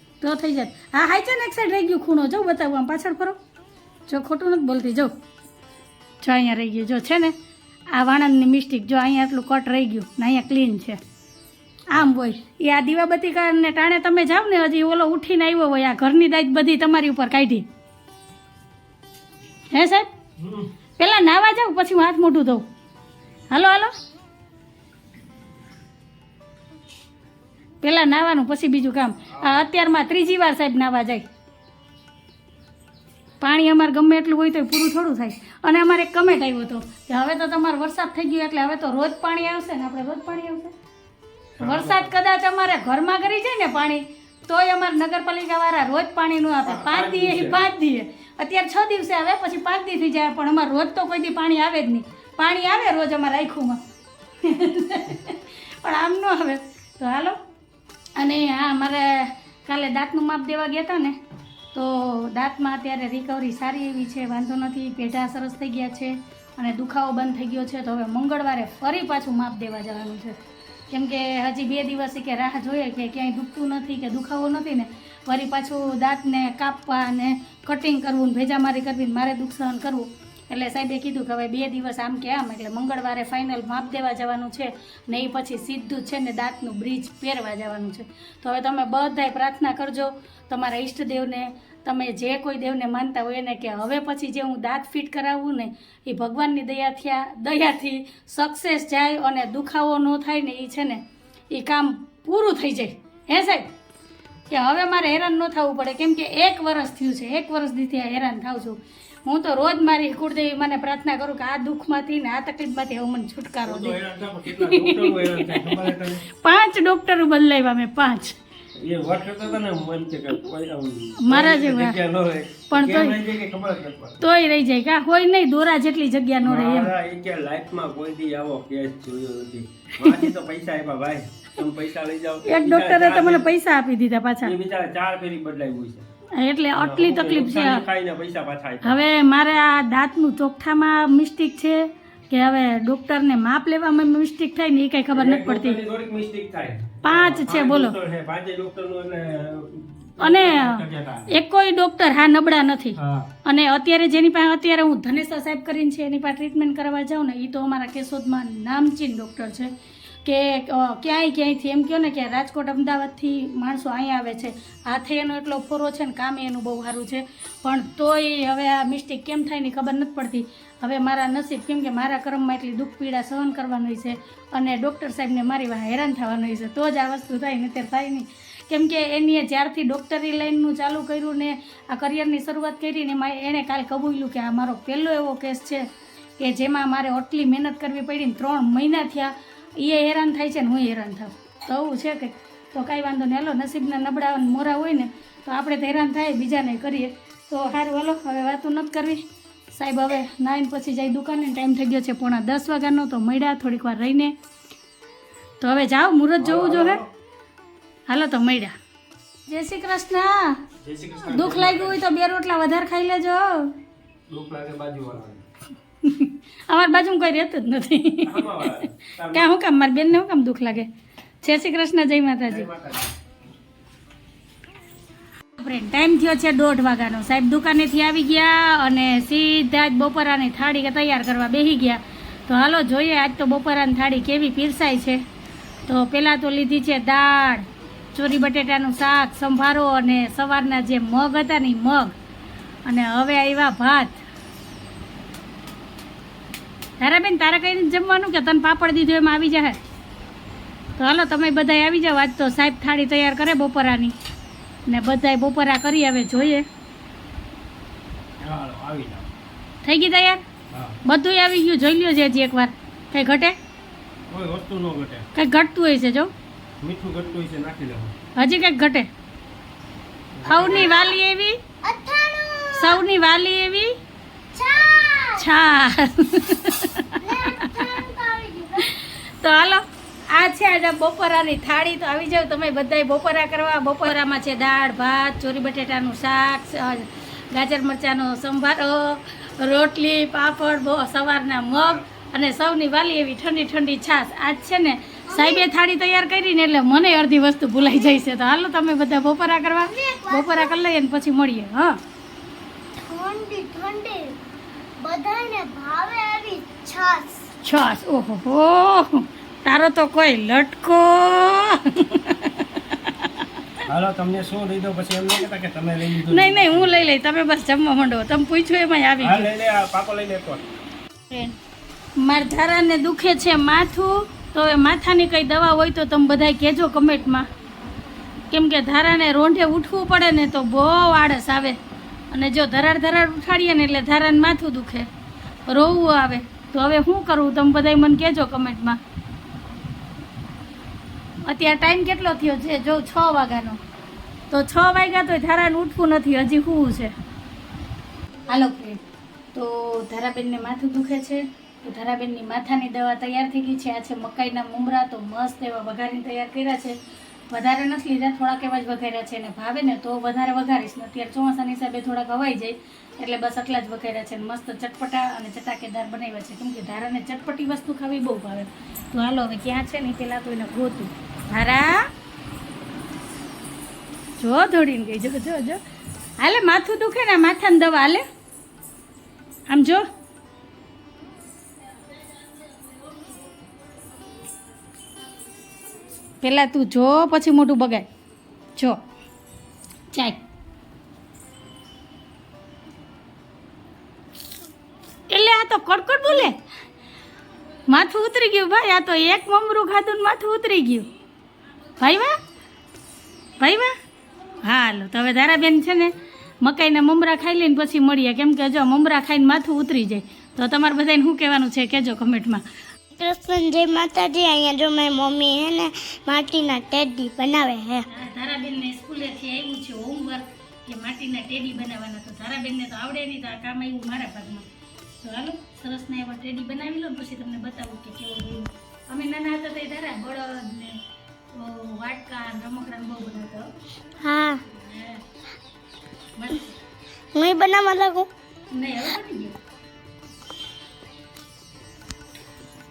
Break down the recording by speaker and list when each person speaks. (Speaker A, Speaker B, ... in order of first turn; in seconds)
Speaker A: 0.2-3.4, 4.1-5.1, 6.2-7.3, 7.9-11.0, 11.9-17.7, 19.7-20.1, 21.0-22.6, 23.5-23.9, 27.8-31.2, 33.4-40.7, 41.6-53.8, 54.4-57.4, 58.2-61.1, 61.7-70.4, 70.9-103.7, 104.5-118.3, 121.2-122.0, 122.7-123.2, 124.2-126.9, 130.0-130.3, 132.4-134.5, 136.3-137.8, 138.8-145.8, 147.0-147.9, 150.2-159.7, 160.2-185.9, 186.4-204.3, 205.6-207.0, 208.1-208.7, 209.5-210.6, 211.3-213.7, 216.0-218.7, 219.3-220.9, 221.4-222.7, 225.6-235.2, 235.9-242.1, 242.8-244.2, 247.0-249.8, 251.0-254.1, 254.9-256.6, 259.8-260.4, 261.0-263.6, 265.3-266.3, 268.4-269.1, 270.4-271.6, 272.7-274.0, 275.4-277.9, 278.8-302.0, 307.6-313.3, 316.3-319.5, 321.3-321.6, 322.2-327.5, 328.5-331.8, 332.3-335.1, 335.7-339.0, 341.4-343.8, 344.5-347.1, 348.5-349.0, 349.5-356.9, 357.5-372.1, 374.4-375.8, 376.4-378.2, 379.7-380.0, 386.4-388.1, 390.1-390.4, 395.3-396.6, 397.9-401.1, 402.0-402.3, 403.6-403.9, 404.6-412.6, 418.1-424.6, 425.2-431.0, 431.5-433.7, 434.5-435.2, 436.4-436.8, 438.7-439.6
Speaker B: 20.4-20.7, 29.3-29.6, 41.6-42.1, 46.6-47.6, 113.6-116.2, 118.8-124.2, 126.4-133.5, 134.4-136.1, 136.7-139.0, 145.1-151.4, 153.0-153.3, 206.4-207.1, 210.8-212.0, 214.3-215.4, 218.2-219.5, 222.5-223.1, 258.4-259.3, 260.7-261.0, 264.3-265.3, 266.8-268.1, 270.3-270.9, 313.9-317.1, 319.2-320.6
Speaker C: 270.6-271.2, 271.8-273.0, 274.5-275.5, 277.2-278.9, 295.3-295.6, 297.8-298.2, 299.8-300.8, 303.0-304.4, 305.0-307.5, 413.1-418.1, 434.2-434.6, 437.3-438.3